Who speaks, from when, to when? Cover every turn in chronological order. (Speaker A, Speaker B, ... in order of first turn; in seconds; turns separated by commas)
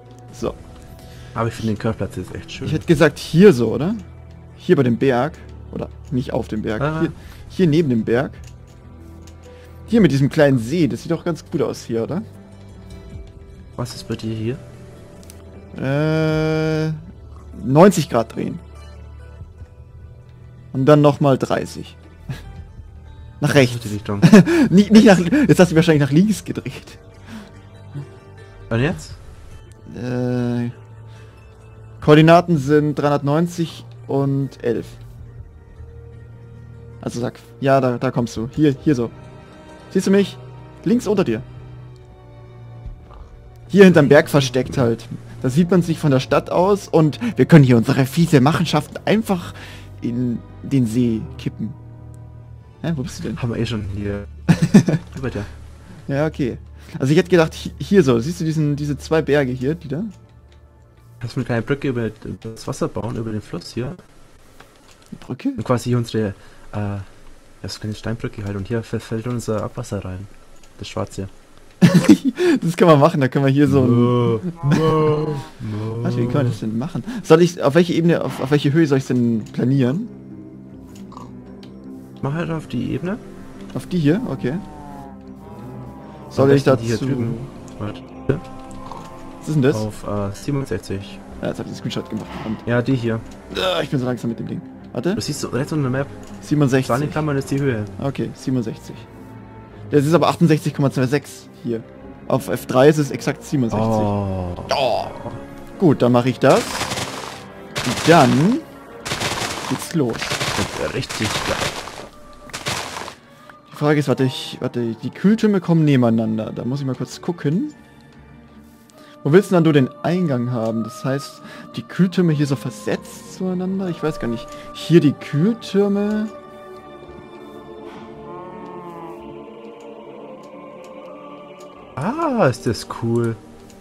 Speaker A: 1.3-2.8, Speaker B: 2.6-4.0, Speaker B: 4.6-8.4, Speaker A: 6.8-7.1, Speaker B: 9.9-12.2, Speaker A: 13.8-14.6, Speaker B: 15.7-17.0, Speaker B: 17.5-18.6, Speaker B: 20.7-22.0, Speaker B: 23.4-27.0, Speaker A: 23.4-24.4, Speaker A: 28.7-29.2, Speaker B: 29.9-30.7, Speaker B: 32.0-35.0, Speaker B: 37.0-39.1, Speaker B: 39.9-41.5, Speaker B: 43.7-51.8, Speaker A: 43.9-44.9, Speaker B: 52.8-53.4, Speaker A: 53.4-54.3, Speaker B: 54.5-55.0, Speaker A: 55.0-55.5, Speaker B: 56.1-60.1, Speaker A: 61.2-64.0, Speaker B: 65.1-65.6, Speaker A: 65.6-67.0, Speaker A: 67.6-71.3, Speaker B: 71.8-75.2, Speaker A: 73.6-76.6, Speaker B: 76.0-80.1, Speaker A: 82.2-83.2, Speaker B: 83.7-84.6, Speaker B: 86.3-87.4, Speaker A: 86.3-88.4, Speaker B: 89.4-89.8, Speaker A: 89.7-91.2, Speaker B: 91.4-92.6, Speaker A: 92.7-93.2, Speaker B: 93.5-95.2, Speaker A: 95.2-96.2, Speaker B: 96.4-97.2, Speaker A: 96.8-97.9, Speaker B: 98.0-99.0, Speaker B: 99.9-104.1, Speaker A: 103.7-104.8, Speaker B: 104.7-107.0, Speaker B: 107.8-108.7, Speaker B: 109.7-110.4, Speaker A: 110.5-111.8, Speaker B: 113.7-117.8, Speaker B: 119.2-126.3, Speaker A: 132.0-133.4